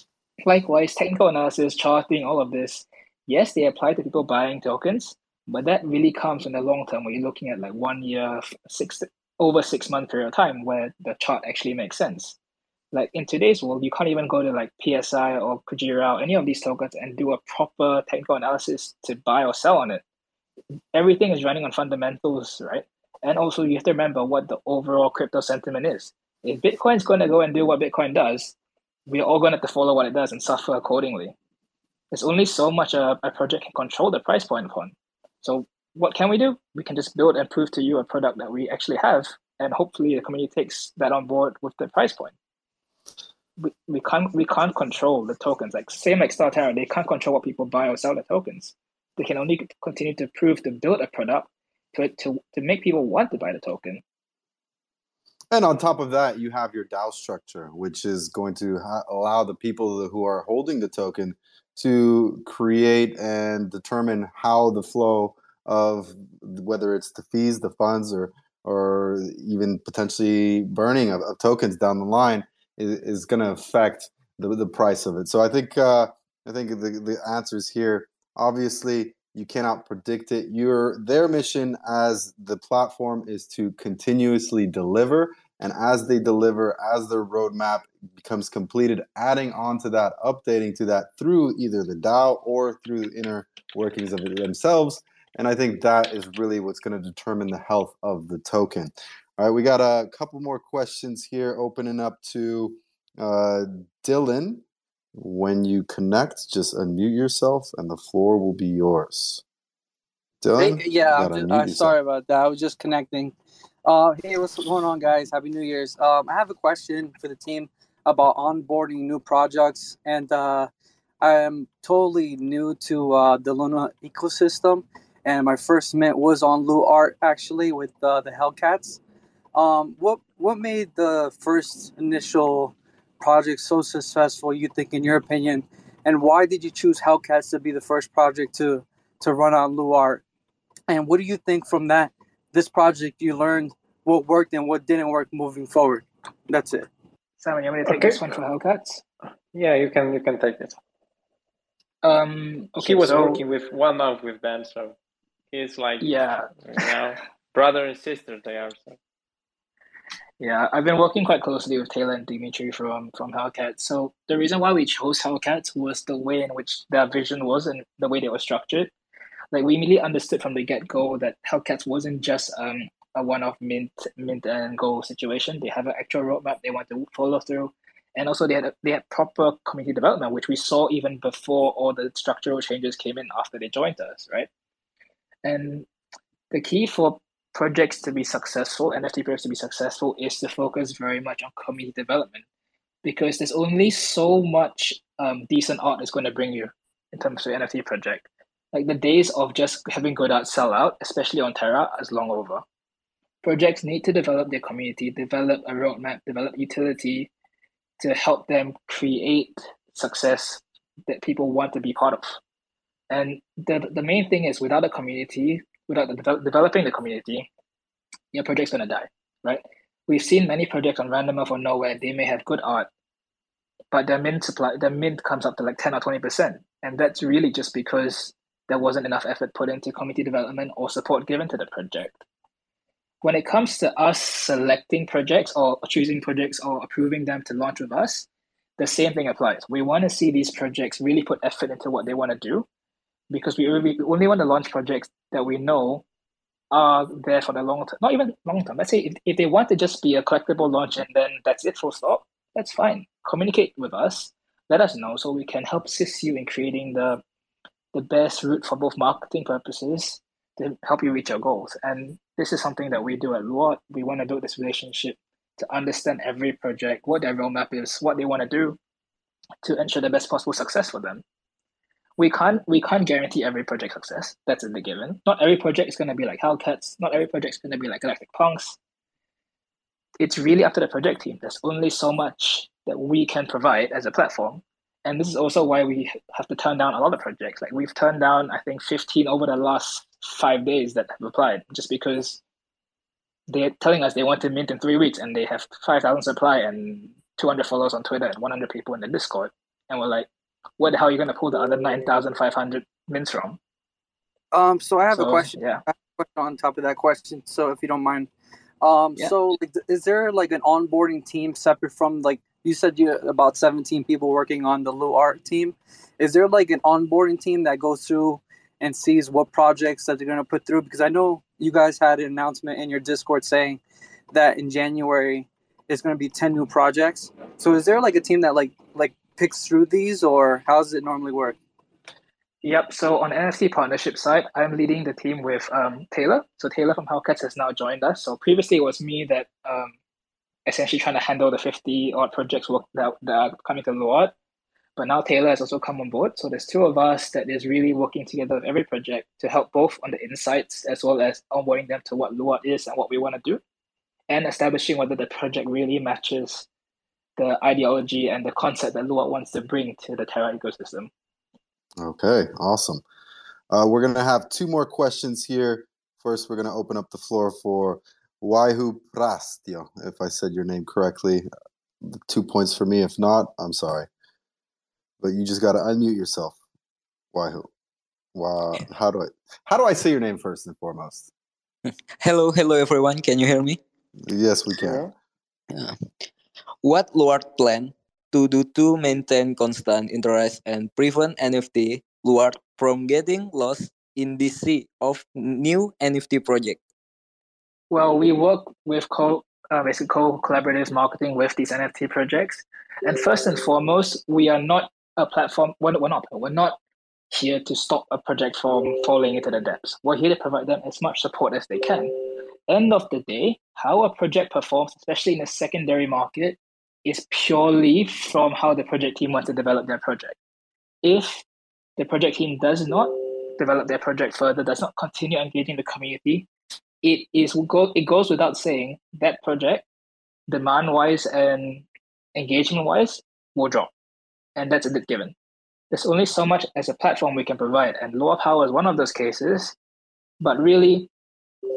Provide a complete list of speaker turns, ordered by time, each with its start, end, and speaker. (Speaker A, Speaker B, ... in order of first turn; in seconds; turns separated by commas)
Speaker A: 0.4-12.4, Speaker A: 12.9-20.0, Speaker A: 20.9-28.6, Speaker A: 29.1-31.3, Speaker A: 32.1-42.3, Speaker A: 43.6-54.0, Speaker B: 55.5-104.6, Speaker B: 105.2-109.4, Speaker B: 110.4-112.0, Speaker C: 110.6-120.7, Speaker C: 121.2-129.0, Speaker C: 129.6-140.2, Speaker C: 140.9-146.9, Speaker A: 147.4-149.0, Speaker D: 147.9-148.3, Speaker D: 149.5-150.8, Speaker A: 152.0-153.4, Speaker D: 152.8-154.9, Speaker D: 155.5-159.0, Speaker A: 156.0-156.9, Speaker A: 160.4-168.9, Speaker A: 169.5-184.5, Speaker A: 185.4-185.9, Speaker A: 186.5-192.4, Speaker A: 193.0-202.6, Speaker A: 203.4-207.3, Speaker A: 208.0-212.4, Speaker A: 213.1-217.5, Speaker A: 218.3-222.9, Speaker A: 223.9-232.2, Speaker A: 233.2-238.3, Speaker A: 238.8-242.7, Speaker A: 243.3-246.1, Speaker A: 246.7-257.2, Speaker A: 257.9-268.8, Speaker A: 269.6-271.2, Speaker A: 272.2-278.8, Speaker A: 280.2-292.4, Speaker A: 293.5-300.3, Speaker A: 300.8-303.6, Speaker C: 304.5-308.3, Speaker A: 305.1-305.8, Speaker C: 308.8-323.8, Speaker C: 324.3-331.6, Speaker A: 332.6-339.9, Speaker A: 340.7-344.3, Speaker A: 345.0-353.6, Speaker A: 354.3-356.7, Speaker A: 357.4-361.1, Speaker B: 362.0-363.0, Speaker B: 363.7-371.5, Speaker B: 372.0-374.1, Speaker B: 375.2-376.6, Speaker B: 377.3-377.7, Speaker B: 378.4-381.3, Speaker E: 382.2-383.8, Speaker B: 384.3-385.1, Speaker E: 386.8-396.8, Speaker A: 397.9-406.8, Speaker A: 407.3-420.4, Speaker A: 421.0-421.4, Speaker A: 422.0-426.5, Speaker A: 427.0-429.9, Speaker A: 430.5-431.9, Speaker A: 432.4-433.9, Speaker A: 434.6-435.4, Speaker A: 435.9-439.8, Speaker A: 440.4-441.1